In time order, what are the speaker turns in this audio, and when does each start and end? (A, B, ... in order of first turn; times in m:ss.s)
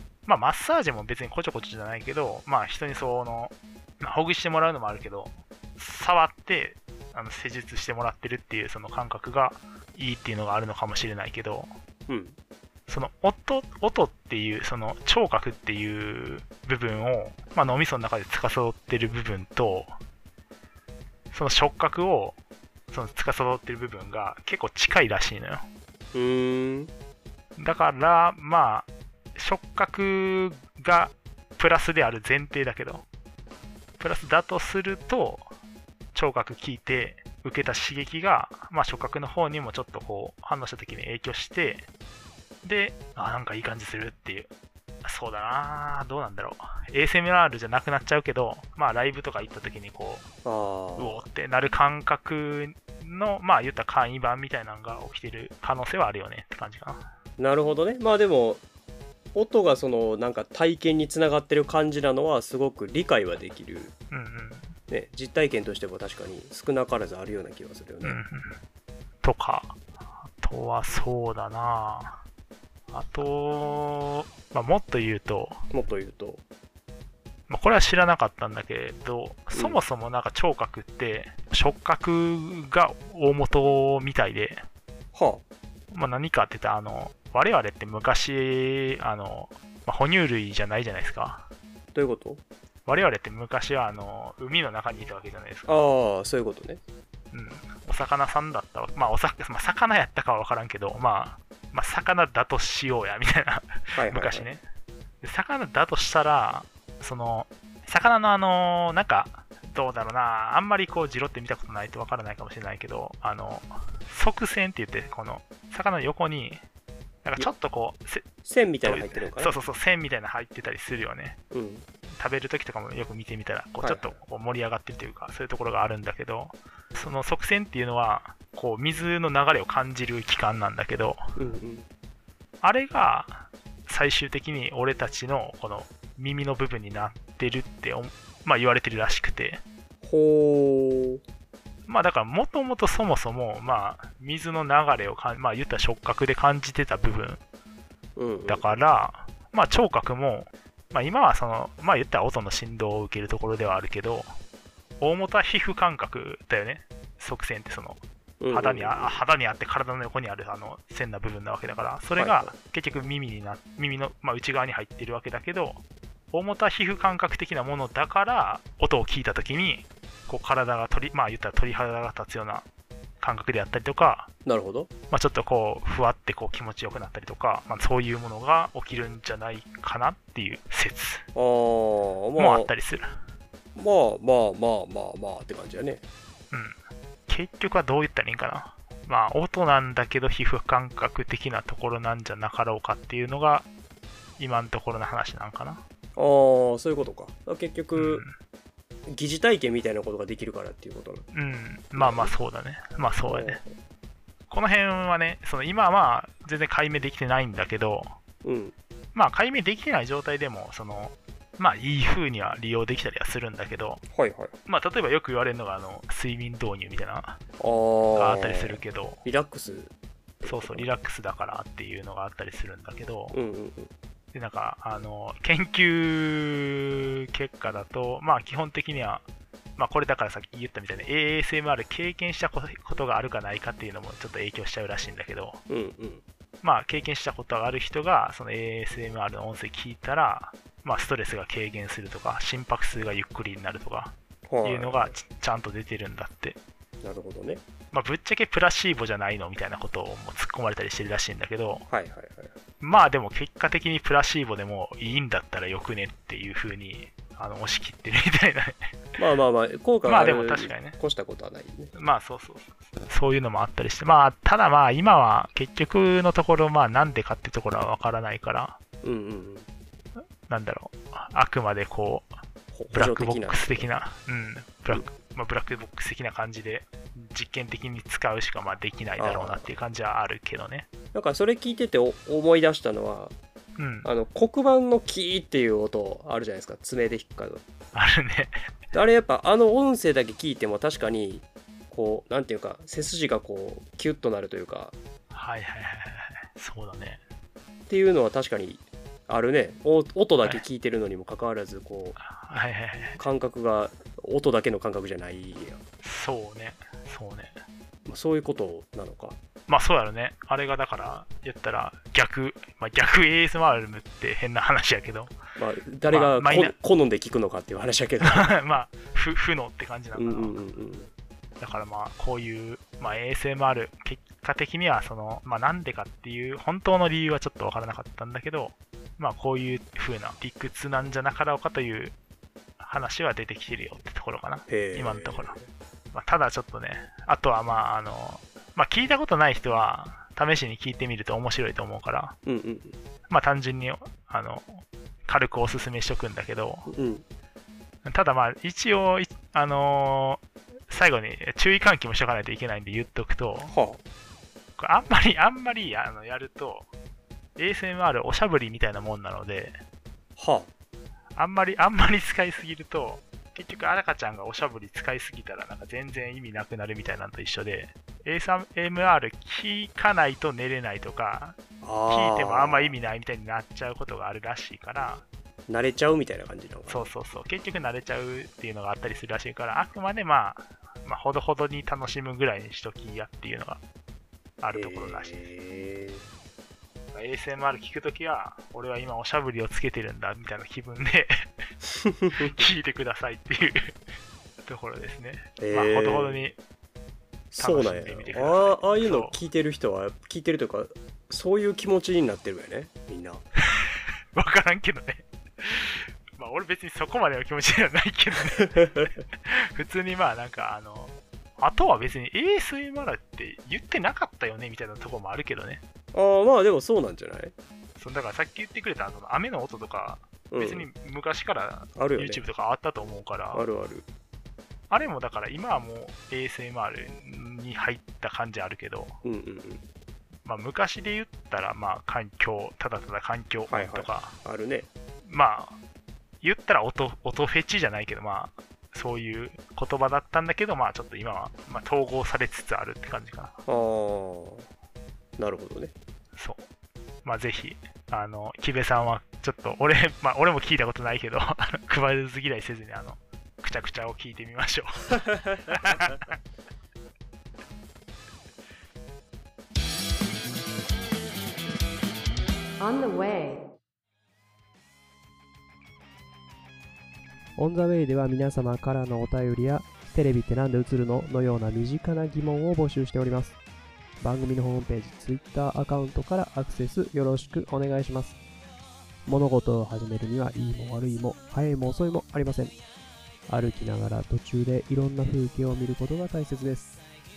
0:00.2-0:11.7 A
0:12.1-0:12.4 B
0:12.9-0:19.9 A
0:21.3-0:22.4 A
0:22.9-0:25.6 A
0:26.1-0:26.9 B
0:27.6-0:33.0 A
0:34.0-0:35.5 A
0:36.1-0:41.9 A
0:42.6-0:44.5 A
0:45.0-0:50.3 A
0:50.4-0:51.2 B
0:51.0-0:57.1 A
0:57.4-0:58.6 B
0:59.3-1:03.9 B
1:04.1-1:04.7 A
1:04.9-1:08.2 B
1:08.0-1:08.6 A
1:09.2-1:09.8 A
1:10.3-1:12.2 A
1:12.9-1:15.6 A
1:15.7-1:16.4 B
1:17.5-1:24.6 A
1:19.5-1:19.8 B
1:25.1-1:25.4 B
1:25.9-1:31.5 A
1:31.9-1:32.4 B
1:32.9-1:35.8 A
1:35.6-1:36.8 B
1:37.3-1:44.6 A
1:43.9-1:44.5 B
1:45.2-1:56.6 A
1:57.2-1:58.2 A
1:58.4-1:59.6 B
1:58.8-2:01.4 A
2:01.5-2:01.9 B
2:02.2-2:11.2 A
2:03.8-2:04.1 B
2:11.4-2:11.8 B
2:12.6-2:19.6 A
2:20.0-2:21.2 B
2:21.9-2:27.4 A
2:28.2-2:28.7 B
2:28.5-2:34.3 A
2:35.0-2:38.0 A
2:38.4-2:39.2 B
2:38.5-2:52.6 A
2:42.2-2:42.5 B
2:53.2-2:54.3 A
2:54.4-2:54.9 B
2:55.1-3:01.2 A
3:01.4-3:02.7 B
3:02.4-3:03.2 A
3:03.8-3:06.0 B
3:06.5-3:06.8 A
3:07.3-3:13.7 A
3:14.4-3:15.8 A
3:16.2-3:18.2 B
3:18.0-3:18.3 A
3:19.1-3:21.2 B
3:21.3-3:23.6 A
3:22.0-3:22.3 B
3:23.3-3:23.7 B
3:24.5-3:28.1 A
3:28.4-3:28.8 B
3:29.1-3:34.0 A
3:34.1-3:34.6 B
3:34.7-3:37.4 A
3:37.6-3:40.9 B
3:38.1-3:39.2 A
3:40.4-3:43.4 A
3:43.3-3:43.9 B
3:44.3-3:49.2 A
3:49.8-3:55.6 A
3:55.7-3:56.2 B
3:56.6-4:06.6 A
4:04.5-4:05.1 B
4:07.0-4:07.6 B
4:07.9-4:11.8 A
4:11.9-4:12.6 B
4:12.8-4:18.9 A
4:19.2-4:21.9 B
4:20.0-4:21.0 A
4:22.0-4:28.8 A
4:29.0-4:29.7 B
4:30.5-4:32.3 A
4:32.7-4:33.9 B
4:32.9-4:40.9 A
4:39.2-4:39.7 B
4:41.1-4:43.3 B
4:43.8-4:44.1 A
4:44.0-4:47.6 B
4:47.9-4:48.5 A
4:48.9-4:55.0 B
4:55.3-4:57.2 A
4:57.9-5:02.2 B
5:02.2-5:03.2 A
5:03.2-5:05.8 B
5:06.0-5:07.5 A
5:08.0-5:09.4 B
5:09.7-5:15.3 A
5:15.6-5:18.5 B
5:16.0-5:16.8 A
5:18.2-5:20.6 A
5:20.2-5:21.1 B
5:21.6-5:32.2 A
5:32.8-5:35.6 A
5:34.7-5:35.6 B
5:36.1-5:42.4 A
5:42.5-5:43.0 B
5:43.3-5:46.9 A
5:46.9-5:47.2 B
5:48.0-5:53.7 A
5:53.7-5:54.0 B
5:54.8-5:56.9 A
5:57.6-5:59.8 A
6:00.4-6:00.7 B
6:01.4-6:15.2 A
6:11.8-6:13.0 B
6:15.7-6:17.1 B
6:16.9-6:23.8 A
6:24.6-6:25.4 A
6:24.7-6:26.3 B
6:27.1-6:31.3 A
6:32.0-6:32.5 B
6:32.3-6:34.0 A
6:34.6-6:36.6 A
6:35.6-6:36.4 B
6:37.5-6:43.4 B
6:37.6-6:39.4 A
6:43.7-6:55.8 A
6:56.1-6:57.5 B
6:58.0-7:03.6 A
7:00.5-7:00.9 B
7:02.0-7:02.4 B
7:03.5-7:04.0 B
7:04.9-7:09.2 A
7:09.2-7:09.8 B
7:10.4-7:14.4 A
7:13.7-7:14.9 B
7:15.2-7:15.8 A
7:16.4-7:23.6 A
7:23.7-7:24.7 B
7:25.4-7:25.9 B
7:26.4-7:26.6 A
7:27.2-7:36.4 A
7:47.6-7:53.6 C
7:54.2-7:58.4 C
7:59.2-8:02.8 C
8:03.5-8:06.9 C